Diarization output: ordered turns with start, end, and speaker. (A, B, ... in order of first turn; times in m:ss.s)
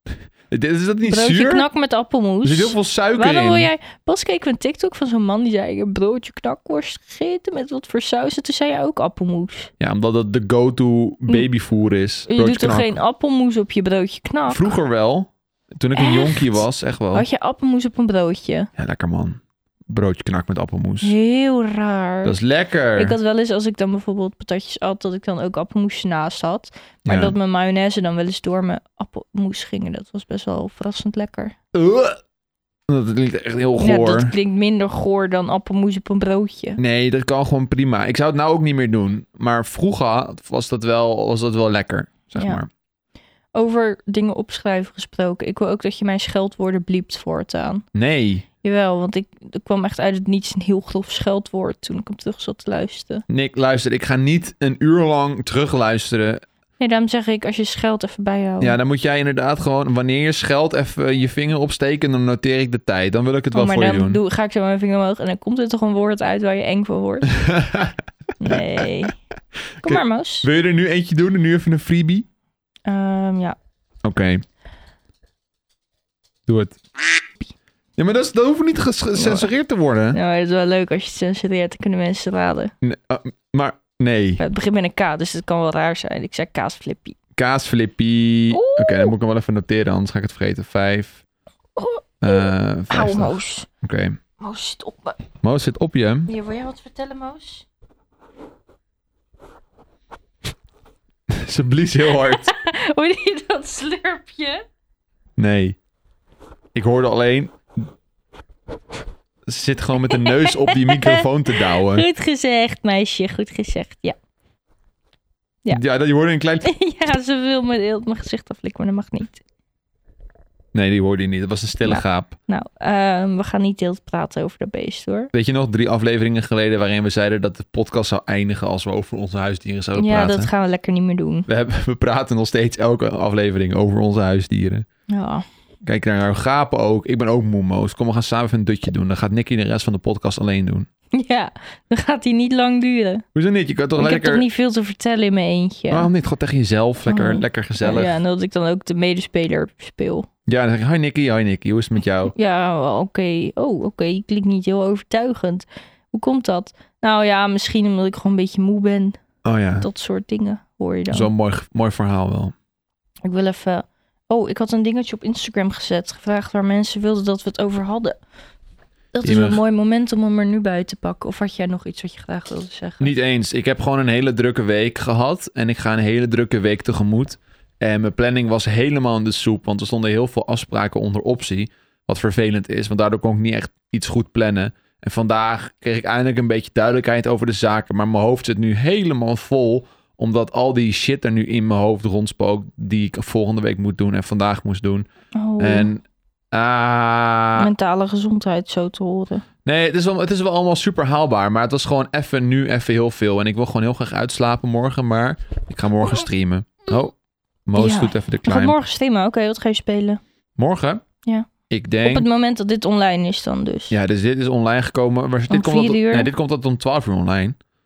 0:00.5-0:01.7 A
0:01.0-0:09.7 B
0:02.4-0:03.7 A
0:09.8-0:13.0 A
0:12.3-0:14.6 B
0:14.5-0:17.2 A
0:15.9-0:18.7 B
0:18.8-0:21.1 A
0:21.0-0:22.4 B
0:22.2-0:23.2 A
0:23.0-0:31.5 B
0:27.0-0:27.3 A
0:31.7-0:32.2 A
0:32.9-0:34.3 A
0:33.8-0:36.8 B
0:36.8-0:42.7 A
0:42.3-0:42.6 B
0:43.5-0:47.8 B
0:47.9-0:48.4 A
0:48.6-0:53.2 B
0:53.3-0:56.4 A
0:56.8-0:58.8 B
0:58.6-1:04.2 A
1:03.5-1:07.3 B
1:07.3-1:07.9 A
1:08.4-1:09.2 B
1:09.8-1:12.2 A
1:09.8-1:10.5 B
1:12.8-1:13.6 B
1:14.0-1:14.4 A
1:16.5-1:16.8 A
1:18.0-1:20.2 A
1:19.2-1:19.5 B
1:20.1-1:22.7 B
1:22.8-1:24.4 A
1:24.4-1:27.2 B
1:27.4-1:31.2 A
1:28.5-1:29.1 B
1:31.7-1:33.7 B
1:32.2-1:34.2 A
1:34.4-1:35.2 B
1:35.4-1:36.3 A
1:36.3-1:37.6 B
1:41.3-1:42.5 A
1:42.1-1:44.6 B
1:45.4-1:45.8 A
1:46.7-1:47.9 A
1:49.5-1:52.1 A
1:50.1-1:54.2 B
1:55.7-1:56.7 A
1:56.6-1:59.4 B
2:00.7-2:02.4 A
2:01.8-2:05.3 B
2:05.3-2:10.5 A
2:09.9-2:11.5 B
2:11.5-2:14.9 A
2:15.1-2:15.4 B
2:15.8-2:20.9 A
2:21.1-2:23.2 B
2:23.3-2:24.4 A
2:24.0-2:26.1 B
2:25.9-2:28.2 A
2:27.0-2:30.3 B
2:30.5-2:32.3 A
2:32.3-2:39.2 B
2:39.4-2:39.9 A
2:39.8-2:41.3 B
2:41.1-2:42.5 A
2:43.2-2:48.2 B
2:49.1-2:53.1 B
2:49.2-2:49.6 A
2:53.0-3:15.1 A
3:15.3-3:15.9 B
3:15.6-3:17.7 A
3:17.6-3:19.4 B
3:19.6-3:27.1 A
3:26.0-3:26.2 B
3:27.7-3:28.8 A
3:27.8-3:30.2 B
3:30.6-3:31.0 A
3:31.7-3:32.2 A
3:32.0-3:33.9 B
3:33.9-3:37.6 A
3:35.5-3:36.3 B